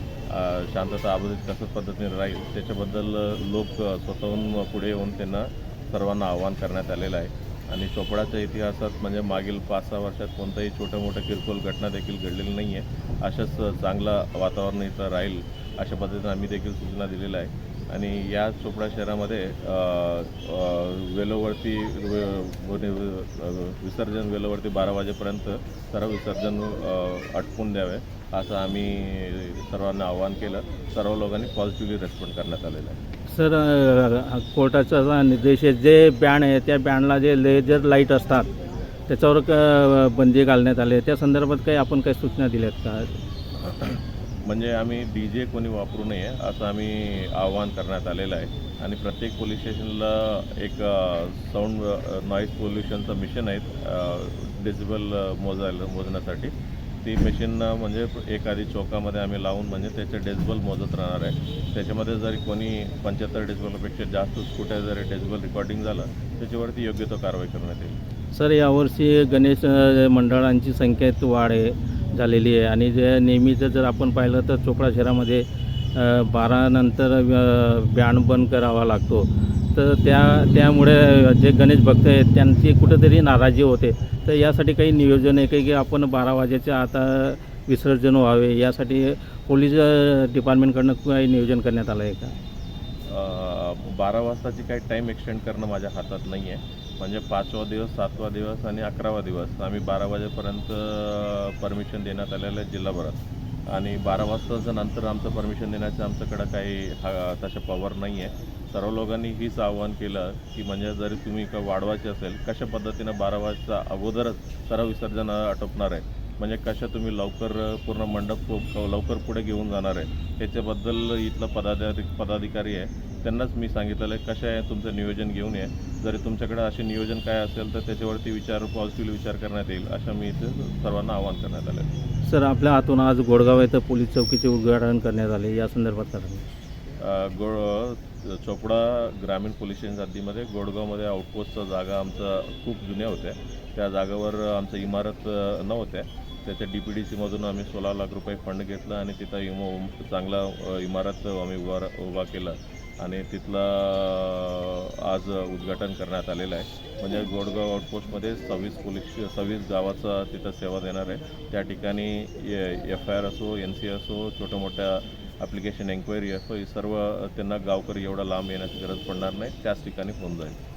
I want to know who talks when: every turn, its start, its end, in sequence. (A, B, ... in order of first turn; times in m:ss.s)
0:00.3-0:33.0 A
0:33.3-0:38.5 B
0:39.1-0:43.2 B
0:44.4-1:08.0 A
1:08.3-1:32.4 B
1:33.0-2:11.9 A
2:12.2-2:16.4 B
2:17.0-2:50.6 A